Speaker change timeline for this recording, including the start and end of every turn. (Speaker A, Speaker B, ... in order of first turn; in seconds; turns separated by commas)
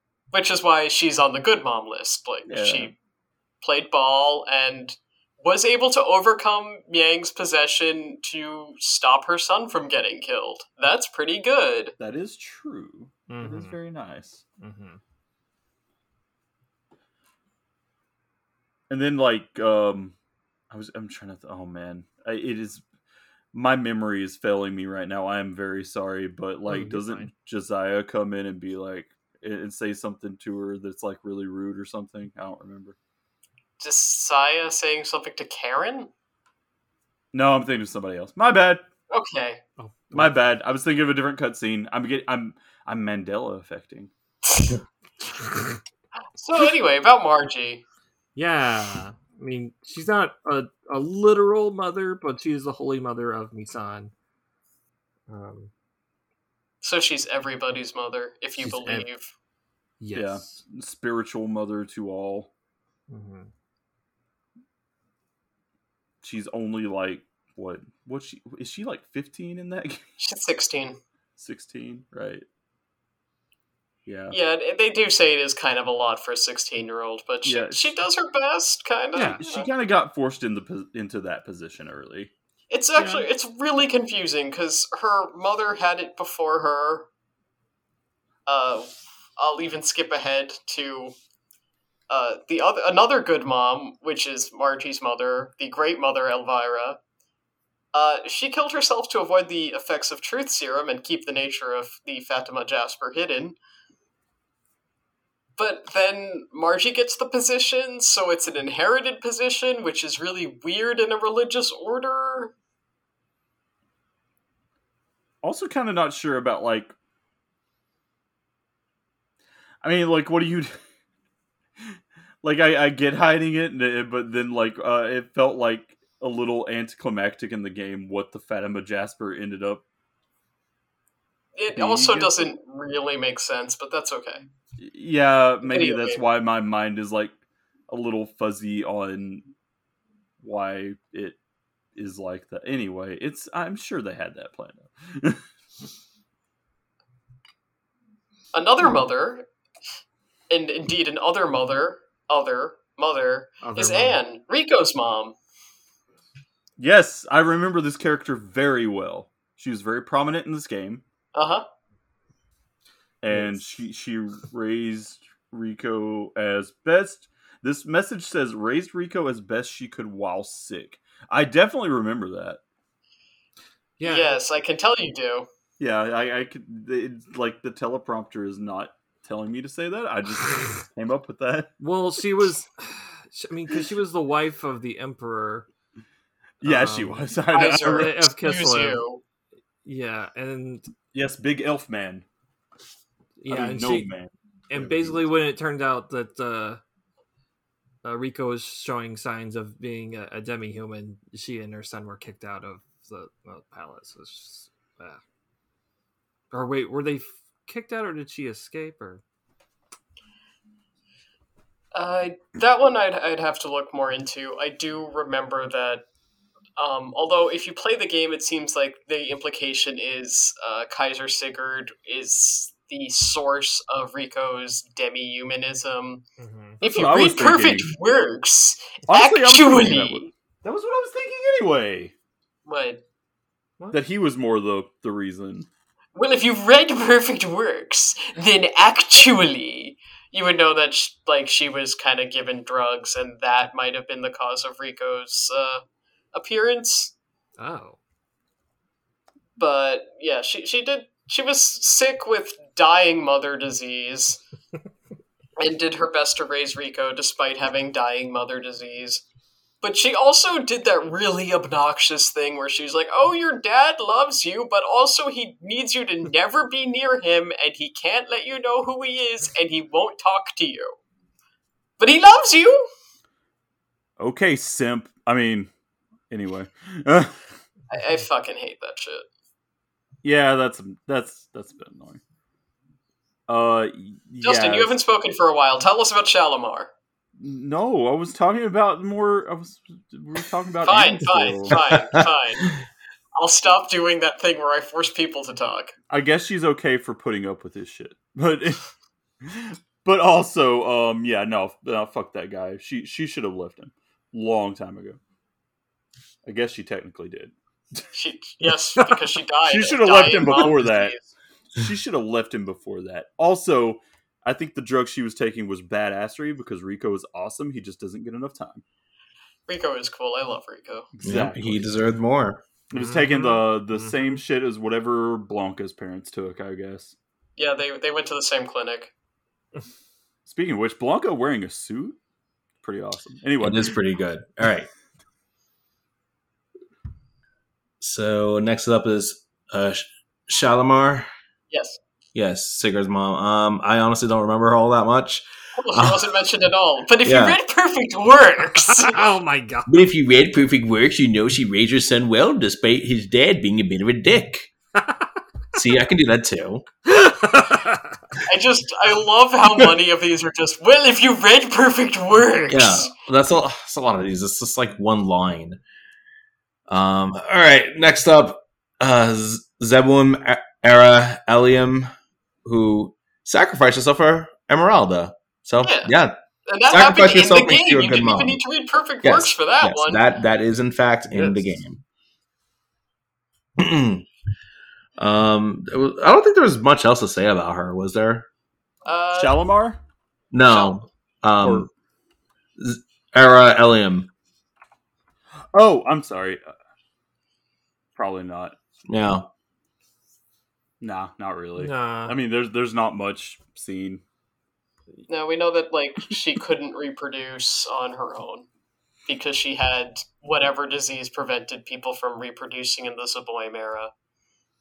Speaker A: 0.3-2.9, Speaker B: 2.5-2.9, Speaker A: 3.6-11.9, Speaker B: 12.0-14.4, Speaker C: 13.3-13.8, Speaker C: 14.6-15.0, Speaker B: 18.9-20.1, Speaker B: 20.7-22.8, Speaker B: 23.5-33.0, Speaker C: 26.7-27.3, Speaker A: 33.8-36.1, Speaker B: 37.3-38.8, Speaker A: 39.1-39.6, Speaker C: 39.8-40.5, Speaker B: 40.1-44.1, Speaker A: 46.4-47.8, Speaker C: 48.4-54.1, Speaker C: 55.3-55.7, Speaker A: 56.8-59.3, Speaker C: 58.6-59.1, Speaker C: 60.0-60.6, Speaker B: 60.1-62.5, Speaker C: 63.1-63.5, Speaker B: 66.2-70.0, Speaker A: 70.2-71.0, Speaker B: 71.4-72.5, Speaker B: 74.0-74.4, Speaker A: 74.3-79.7, Speaker B: 77.4-77.9, Speaker C: 79.1-79.4, Speaker B: 79.4-82.3, Speaker A: 82.7-87.1, Speaker B: 83.0-83.2, Speaker A: 88.5-91.1, Speaker A: 92.1-97.0, Speaker A: 97.9-103.6, Speaker A: 105.6-112.5, Speaker B: 115.4-116.9, Speaker B: 119.8-120.7, Speaker B: 122.4-129.8, Speaker A: 131.6-134.4, Speaker B: 131.7-132.3, Speaker B: 134.8-137.3, Speaker A: 135.6-136.2, Speaker B: 137.9-139.5, Speaker B: 140.4-141.4, Speaker B: 141.9-145.4, Speaker A: 148.5-149.4, Speaker A: 150.5-155.3, Speaker C: 153.6-154.2, Speaker B: 156.8-161.0, Speaker A: 161.3-161.6, Speaker B: 163.2-172.6, Speaker C: 163.3-163.6, Speaker C: 174.0-174.4, Speaker A: 174.0-175.5, Speaker B: 175.8-181.7, Speaker C: 181.8-185.7, Speaker B: 186.6-188.1, Speaker C: 186.6-189.0, Speaker A: 187.5-189.2, Speaker C: 189.8-190.9, Speaker B: 191.1-192.2, Speaker C: 193.4-194.1, Speaker B: 193.5-195.3, Speaker C: 194.7-196.8, Speaker C: 198.0-205.2, Speaker C: 206.5-209.2, Speaker A: 211.9-216.0, Speaker A: 216.8-226.2, Speaker C: 226.4-226.8, Speaker A: 226.8-230.3, Speaker B: 226.8-227.9, Speaker B: 229.1-232.1, Speaker A: 232.7-233.0, Speaker B: 233.9-235.7, Speaker A: 236.1-247.1, Speaker C: 247.6-248.0, Speaker A: 249.6-254.4, Speaker A: 255.6-259.2, Speaker A: 259.8-270.9, Speaker A: 272.0-272.8, Speaker B: 274.2-275.7, Speaker B: 276.3-277.3, Speaker A: 277.9-279.2, Speaker B: 280.2-282.2, Speaker B: 283.5-284.9, Speaker A: 284.4-286.9, Speaker B: 287.4-291.8, Speaker A: 290.8-292.7, Speaker A: 293.4-295.9, Speaker B: 296.1-298.8, Speaker B: 299.4-305.2, Speaker B: 306.4-307.5, Speaker A: 308.1-311.2, Speaker B: 309.6-311.2, Speaker B: 311.8-318.8, Speaker A: 319.7-321.1, Speaker B: 321.1-321.9, Speaker D: 321.2-322.6, Speaker B: 322.9-327.1, Speaker C: 322.9-324.4, Speaker A: 327.6-329.1, Speaker B: 330.4-332.2, Speaker B: 332.8-334.0, Speaker D: 333.6-334.9, Speaker D: 338.0-341.3, Speaker A: 341.7-342.0, Speaker D: 342.3-346.2, Speaker A: 345.8-349.2, Speaker D: 347.2-347.6, Speaker C: 349.0-349.9, Speaker D: 349.9-354.7, Speaker D: 355.7-356.9, Speaker C: 357.1-358.1, Speaker A: 358.4-363.1, Speaker D: 362.7-365.8, Speaker D: 366.9-372.1, Speaker D: 372.6-378.6, Speaker A: 375.8-376.1, Speaker A: 376.7-380.2, Speaker D: 379.2-382.0, Speaker C: 381.4-381.6, Speaker D: 383.8-384.3, Speaker D: 385.2-388.4, Speaker A: 389.1-389.6, Speaker B: 389.4-390.0, Speaker D: 390.5-391.9, Speaker A: 390.7-391.0, Speaker B: 391.6-391.9, Speaker D: 392.8-394.3, Speaker B: 395.7-396.6, Speaker B: 398.1-398.8, Speaker D: 399.1-399.5, Speaker B: 401.0-404.2, Speaker C: 401.8-402.4, Speaker A: 405.3-408.6, Speaker A: 409.3-414.1